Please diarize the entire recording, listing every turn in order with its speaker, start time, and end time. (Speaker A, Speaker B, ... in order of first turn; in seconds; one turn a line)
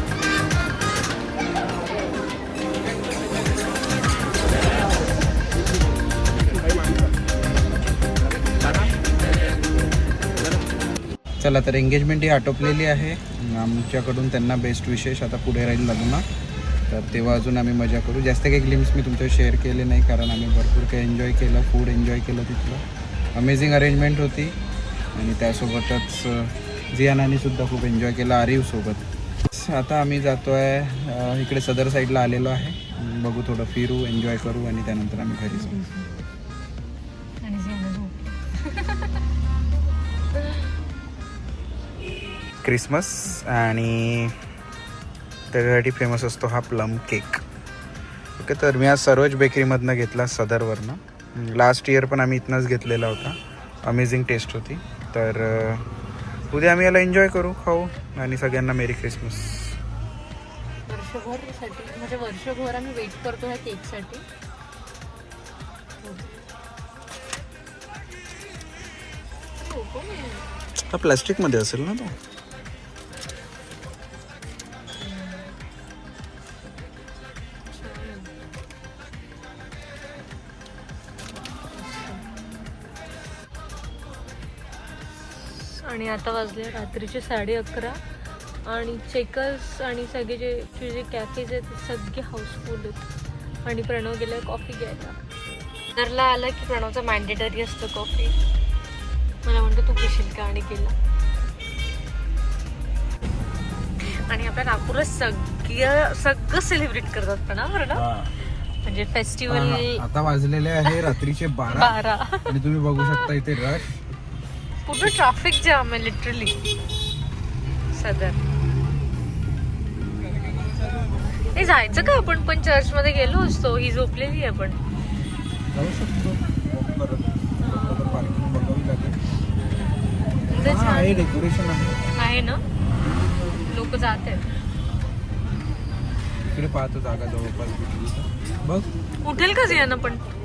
Speaker A: 11.4-16.2
Speaker A: 16.9-22.8
Speaker A: 23.3-24.6
Speaker A: 25.1-35.8
Speaker B: 35.5-36.1
Speaker B: 37.4-39.2
Speaker B: 40.4-40.6
Speaker A: 42.6-44.4
Speaker A: 45.5-47.4
Speaker A: 48.4-55.9
Speaker A: 56.5-59.8
Speaker B: 60.9-64.2
Speaker B: 66.0-66.3
Speaker B: 69.6-70.4
Speaker A: 70.9-72.2
Speaker B: 75.0-75.5
Speaker B: 77.7-78.3
Speaker B: 81.7-82.2
Speaker B: 85.4-88.0
Speaker B: 88.6-93.1
Speaker B: 93.6-95.2
Speaker B: 95.9-98.3
Speaker B: 99.4-100.9
Speaker B: 104.0-108.0
Speaker A: 107.9-108.3
Speaker B: 108.8-110.0
Speaker A: 109.5-114.0
Speaker B: 110.8-112.5
Speaker B: 114.8-116.6
Speaker B: 117.9-118.4
Speaker B: 121.5-124.8
Speaker A: 125.7-129.2
Speaker B: 130.5-131.3
Speaker A: 130.6-132.0
Speaker B: 132.1-132.6
Speaker B: 133.5-134.4
Speaker A: 136.4-138.9
Speaker B: 139.2-140.2